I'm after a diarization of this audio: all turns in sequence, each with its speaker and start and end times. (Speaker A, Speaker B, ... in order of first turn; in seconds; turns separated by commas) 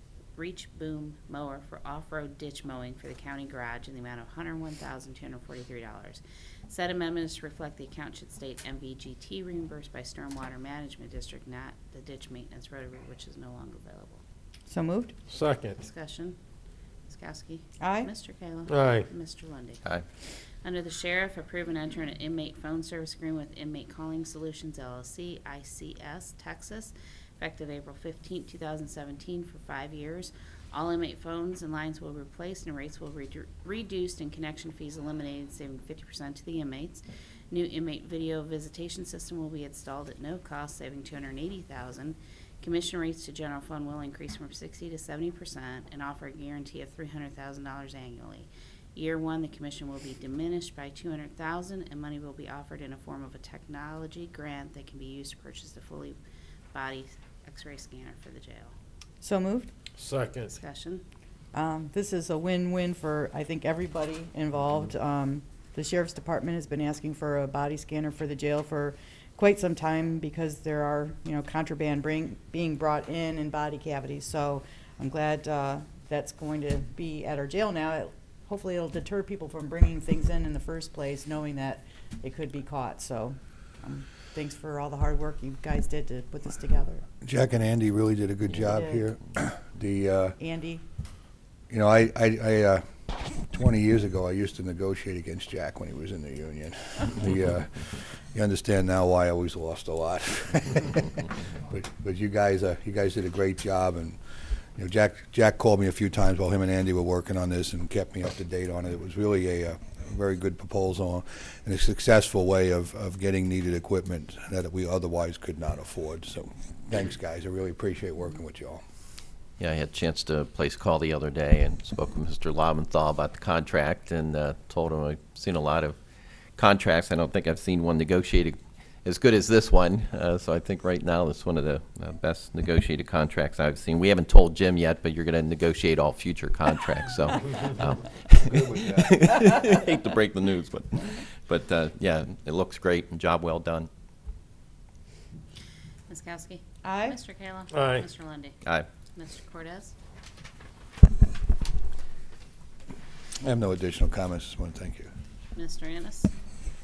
Speaker A: 0.4-14.2, Speaker B: 14.7-15.2, Speaker C: 15.3-15.8, Speaker A: 15.8-16.4, Speaker A: 17.1-19.8, Speaker B: 17.8-18.1, Speaker C: 18.7-19.1, Speaker A: 20.6-56.2, Speaker A: 56.7-58.7, Speaker B: 59.2-59.7, Speaker C: 60.0-60.5, Speaker A: 60.5-61.0, Speaker B: 61.5-87.0, Speaker D: 87.2-90.4, Speaker B: 88.7-89.1, Speaker B: 90.4-90.8, Speaker D: 91.7-104.2, Speaker D: 104.8-118.8, Speaker E: 119.6-126.0, Speaker E: 126.6-143.9, Speaker D: 138.4-139.2, Speaker A: 146.1-148.6, Speaker B: 146.8-147.2, Speaker C: 147.7-148.1, Speaker A: 149.1-149.9, Speaker D: 153.4-155.1, Speaker A: 155.6-156.3